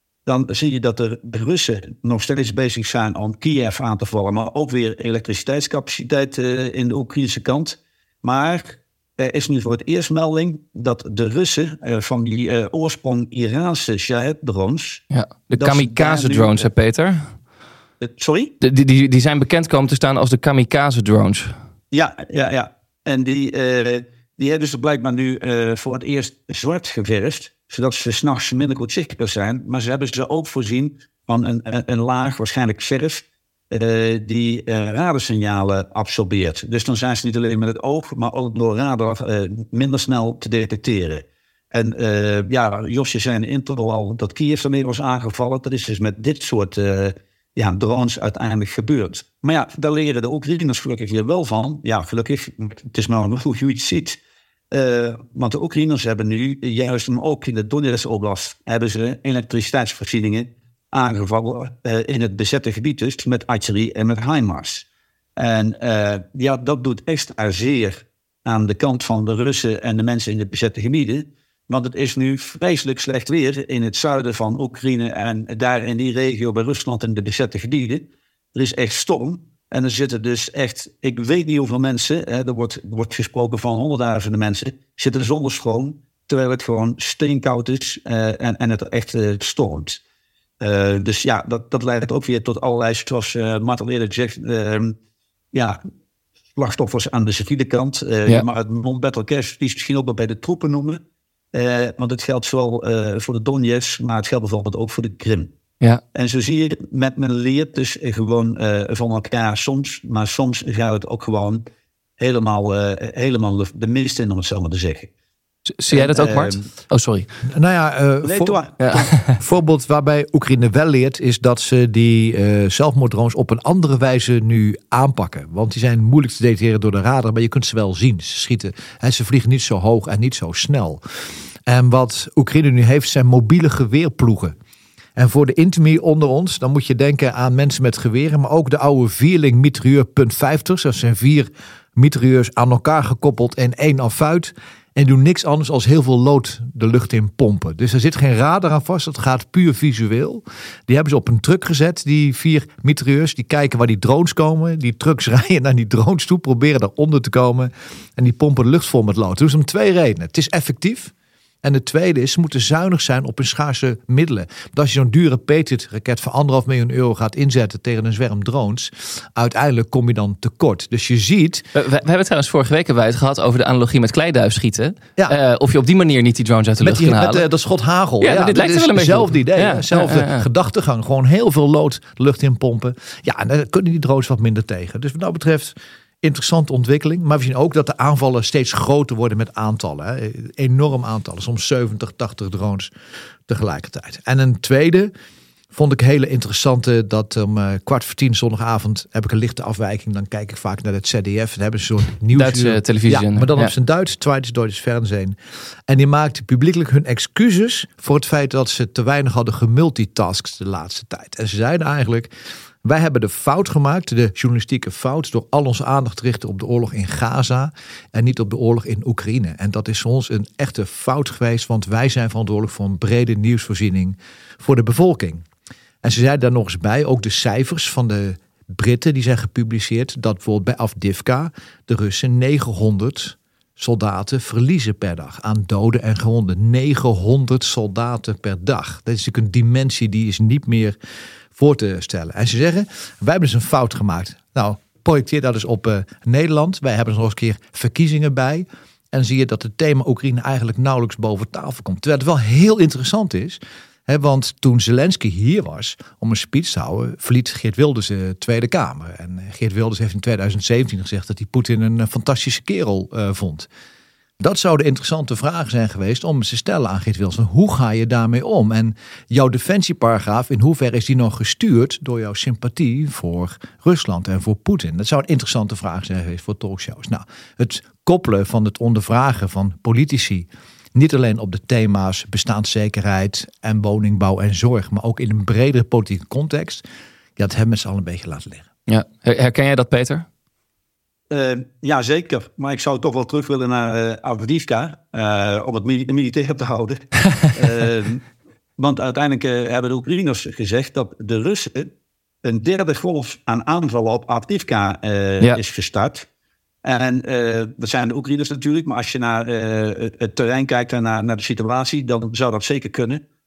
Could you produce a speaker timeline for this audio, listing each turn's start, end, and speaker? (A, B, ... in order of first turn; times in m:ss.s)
0:00.2-0:16.7 A
0:15.1-0:17.3 B
0:18.0-0:18.5 A
0:18.6-0:21.5 B
0:21.9-0:54.2 A
0:54.7-1:04.8 A
1:05.4-1:30.0 A
1:30.6-1:34.9 A
1:36.5-1:41.0 A
1:41.5-1:45.5 A
1:46.1-1:51.6 A
1:52.2-1:55.1 A
1:55.8-1:57.3 B
1:55.9-1:56.7 A
1:57.5-1:58.6 C
1:58.2-1:59.1 A
1:58.8-1:59.3 B
1:59.4-2:11.0 C
2:11.6-2:14.5 C
2:15.2-2:51.6 C
2:51.7-2:57.4 B
2:56.8-3:12.9 C
2:58.2-3:00.4 B
3:13.5-3:15.1 C
3:15.7-3:25.4 C
3:22.3-3:23.7 B
3:25.9-3:32.3 C
3:32.8-3:45.4 C
3:46.0-4:01.0 C
4:01.5-4:23.7 C
4:24.4-4:46.8 C
4:47.4-4:48.7 C
4:48.9-4:50.3 B
4:51.3-4:58.2 A
4:58.8-5:01.9 A
5:02.4-5:06.2 A
5:06.8-5:13.2 A